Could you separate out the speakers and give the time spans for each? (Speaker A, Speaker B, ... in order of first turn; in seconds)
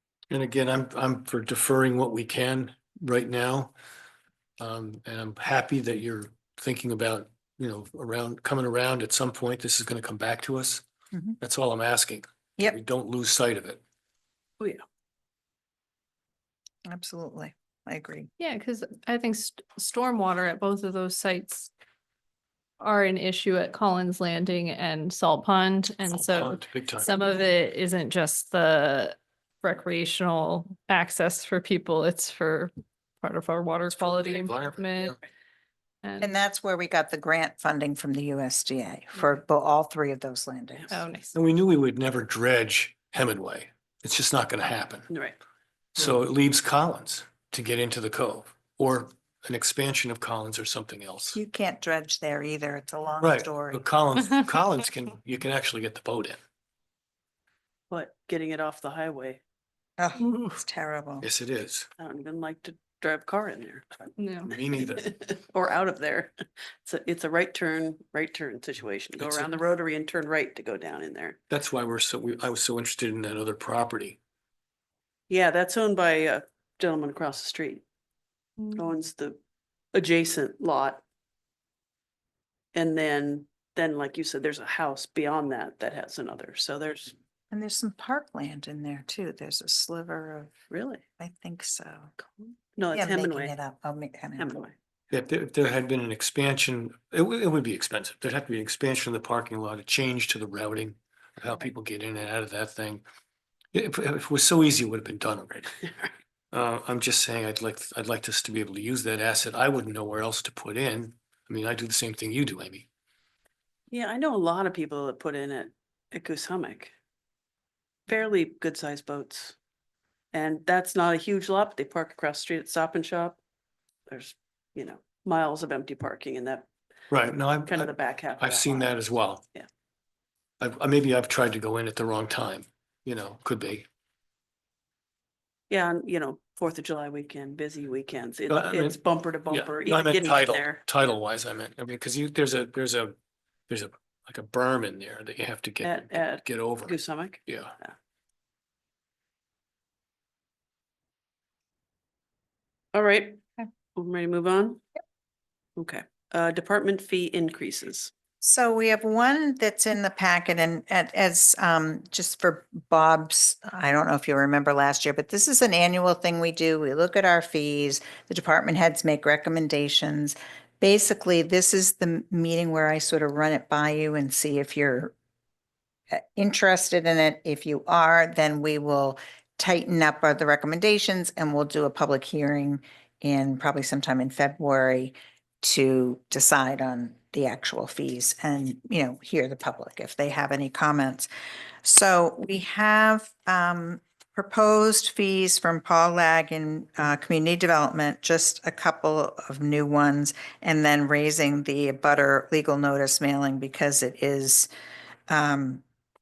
Speaker A: 0.3-3.7, 4.6-10.8, 11.4-13.8, 26.1-27.1, 34.2-35.1, 41.3-45.1, 46.0-51.4, 53.2-56.4, 61.2-61.9, 64.5-65.1, 69.2-69.6, 71.5-74.2, 95.1-103.0, 103.7-105.8, 106.5-112.9, 127.1-129.4, 130.6-133.8, 138.5-143.1, 143.7-147.7
Speaker B: 16.9-18.3, 36.2-41.0, 51.3-53.8, 60.0-61.2, 87.5-90.5, 91.2-92.1, 92.9-94.5, 158.4-175.1, 176.1-191.3, 191.8-204.7, 205.3-205.8
Speaker C: 18.4-21.7, 22.8-35.2, 36.0-36.4, 40.9-41.3, 64.2-64.5, 78.6-78.9
Speaker D: 45.1-45.4, 57.9-59.4, 62.0-64.1, 64.9-71.4, 75.3-77.8, 78.7-79.4, 79.9-81.0, 82.7-87.1, 90.7-91.0, 92.2-93.5, 94.4-94.7, 113.9-116.9, 118.1-119.5, 120.3-123.4, 124.1-126.7, 127.7-129.0, 135.7-140.8, 145.8-147.9, 152.9-153.4, 153.9-154.8, 155.8-158.1